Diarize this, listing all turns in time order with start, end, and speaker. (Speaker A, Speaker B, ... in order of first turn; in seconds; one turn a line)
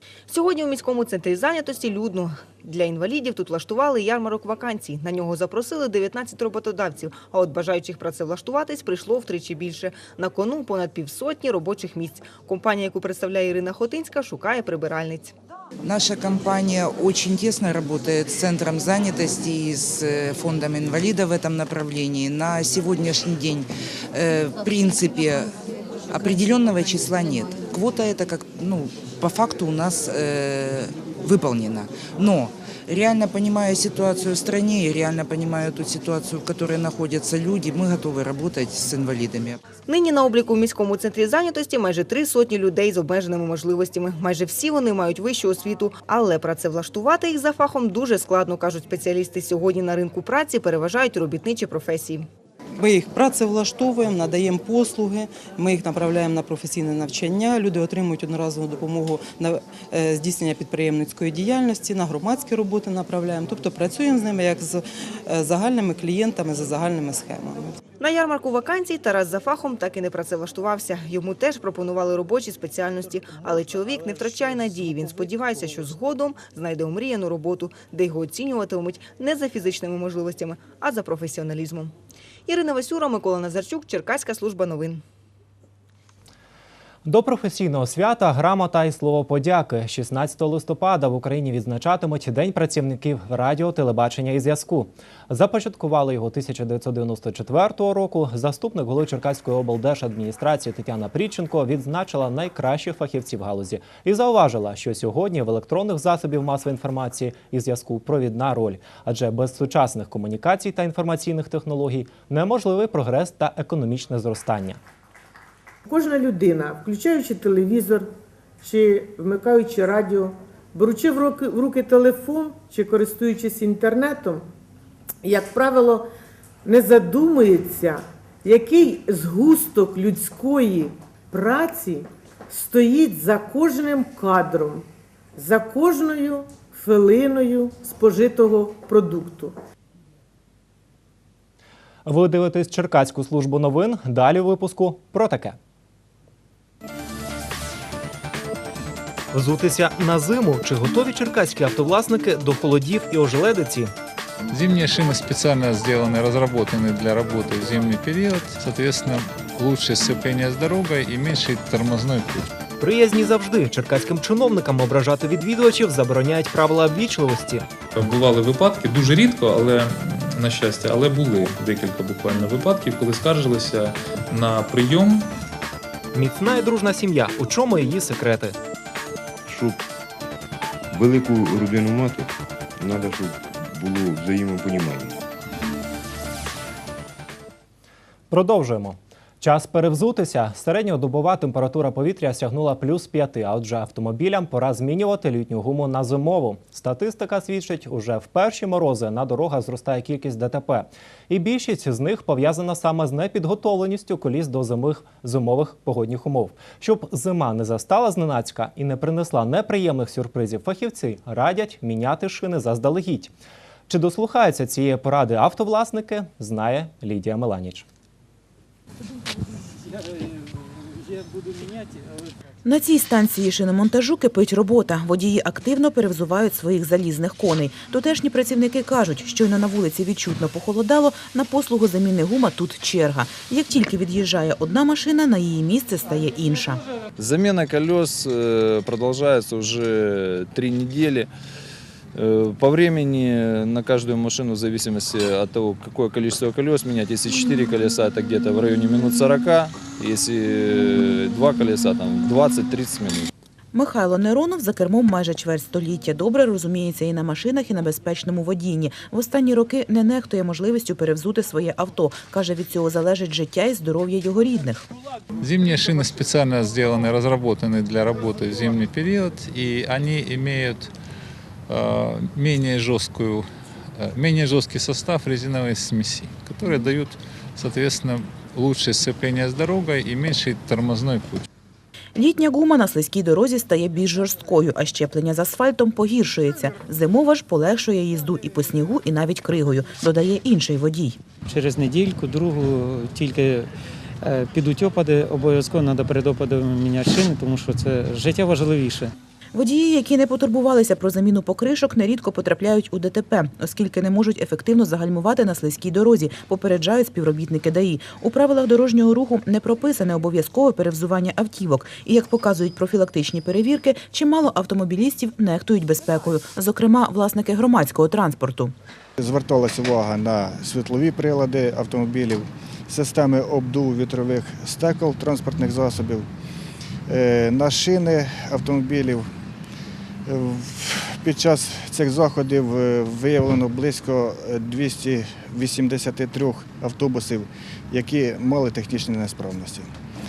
Speaker A: 0.3-15.3
Speaker B: 15.8-25.5
Speaker B: 26.1-39.6
Speaker A: 39.9-52.3
Speaker C: 52.8-67.7
Speaker A: 68.0-81.9
Speaker A: 82.5-85.0
Speaker D: 87.0-114.8
Speaker E: 115.8-124.4
Speaker E: 125.2-126.1
Speaker E: 126.6-134.8
Speaker E: 135.3-139.5
Speaker D: 142.0-145.6
Speaker D: 149.3-153.9
Speaker F: 154.5-162.5
Speaker D: 162.8-167.7
Speaker G: 167.9-175.3
Speaker D: 176.1-178.6
Speaker H: 179.5-179.8
Speaker H: 180.9-185.2
Speaker D: 188.3-213.3
Speaker D: 213.9-217.8
Speaker I: 222.6-236.8
Speaker J: 237.2-241.3
Speaker J: 242.2-242.6
Speaker J: 243.4-253.3
Speaker I: 253.7-264.8
Speaker F: 265.4-270.9
Speaker F: 271.7-281.4
Speaker I: 282.1-291.2
Speaker K: 291.5-293.7
Speaker K: 294.2-299.1
Speaker I: 299.5-318.7
Speaker L: 319.2-326.3
Speaker L: 327.1-329.3
Speaker L: 330.2-339.9